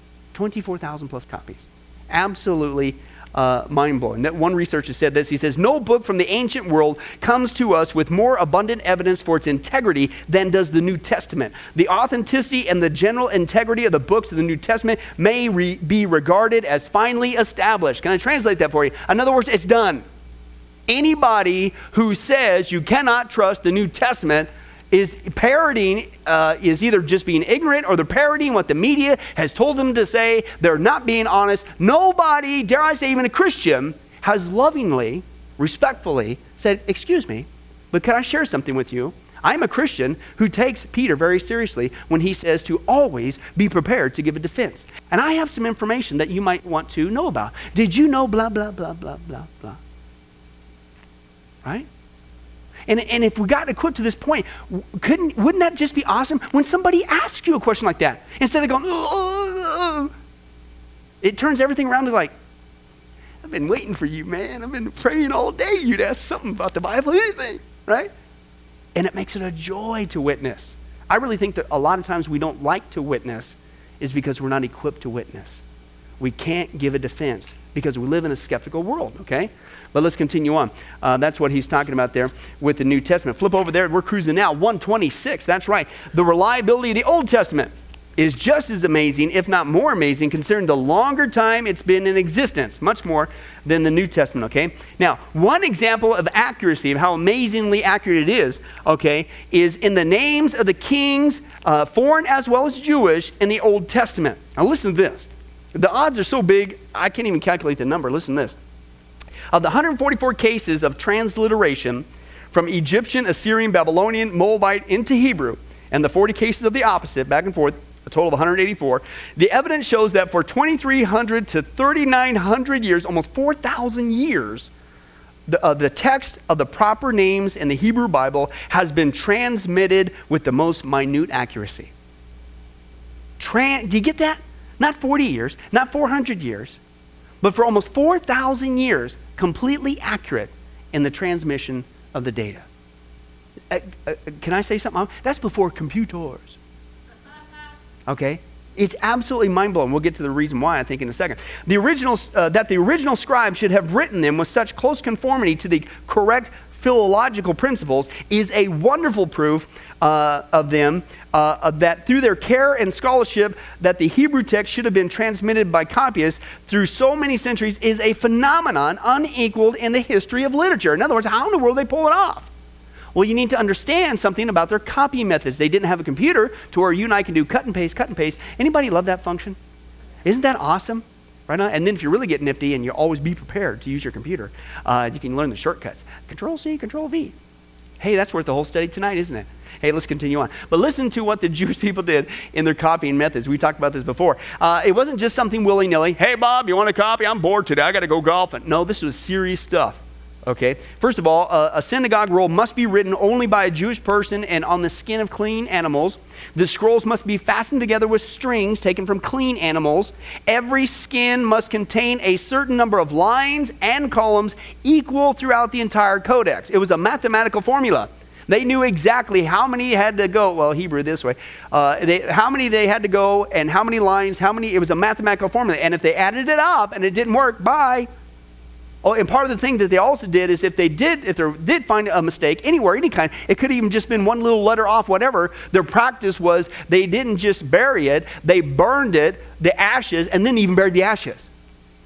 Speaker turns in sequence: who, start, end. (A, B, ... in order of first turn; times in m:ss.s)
0:00.3-0:20.0 A
0:20.9-0:49.8 A
0:52.9-1:00.1 A
1:01.2-1:02.3 A
1:03.4-1:08.1 A
1:08.9-1:15.6 A
1:16.2-1:48.6 A
1:49.5-2:04.7 A
2:05.5-2:11.9 A
2:13.4-2:16.8 A
2:17.4-2:22.7 A
2:23.7-2:26.6 A
2:28.1-2:52.5 A
2:53.1-2:59.6 A
3:00.2-3:07.3 A
3:08.0-3:48.1 A
3:49.0-4:01.5 A